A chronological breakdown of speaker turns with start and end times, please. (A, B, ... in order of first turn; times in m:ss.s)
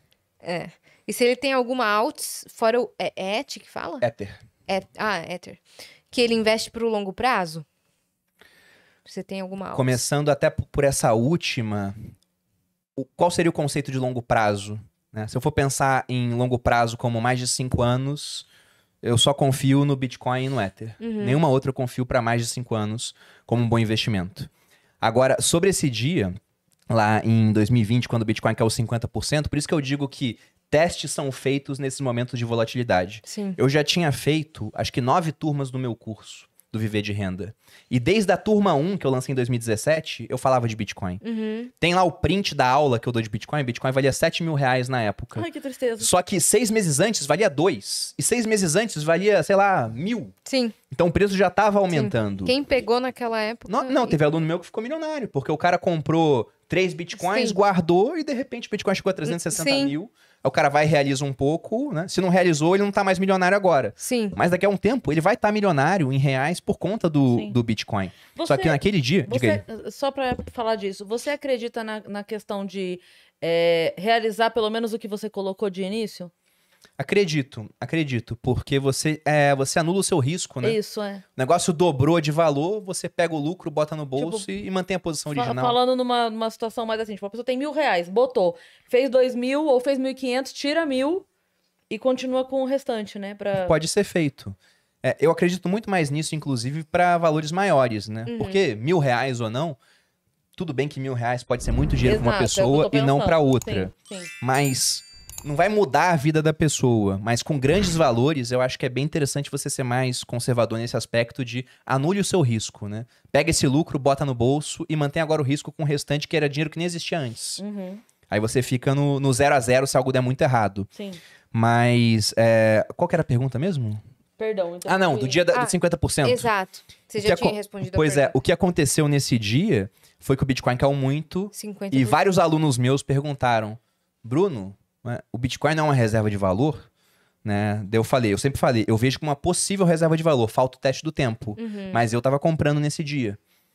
0:00.4-0:04.1 A
0:04.0-0:04.4 B
0:04.7-0:07.7 A
0:09.0-0:10.0 A
0:09.7-0:12.0 B
0:13.0-0:18.5 B
0:19.0-0:24.5 B
0:21.0-0:21.4 A
0:25.0-0:26.3 B
0:26.9-0:41.2 B
0:33.3-0:33.6 A
0:41.2-0:41.7 A
0:41.8-0:45.5 B
0:45.4-0:46.1 C
0:46.0-0:50.3 B
0:50.5-0:50.8 A
0:50.9-0:52.6 B
0:51.9-0:54.2 A
0:53.7-1:09.6 B
0:57.2-0:57.6 A
0:59.3-1:00.0 A
1:04.0-1:04.4 A
1:07.3-1:07.6 C
1:08.3-1:16.3 C
1:17.0-1:20.8 B
1:20.6-1:21.2 C
1:21.4-1:25.8 B
1:24.2-1:24.5 C
1:25.3-1:31.3 C
1:31.9-1:33.8 C
1:33.6-1:39.8 B
1:38.3-1:38.6 A
1:40.6-1:57.6 B
1:42.0-1:44.3 C
1:57.6-1:58.0 C
1:58.3-2:00.9 B
2:00.9-2:01.2 C
2:01.5-2:04.0 B
2:04.4-2:05.4 C
2:04.9-2:06.5 B
2:05.5-2:08.4 A
2:07.2-2:16.9 B
2:11.5-2:12.2 A
2:17.4-2:23.4 B
2:21.6-2:22.0 A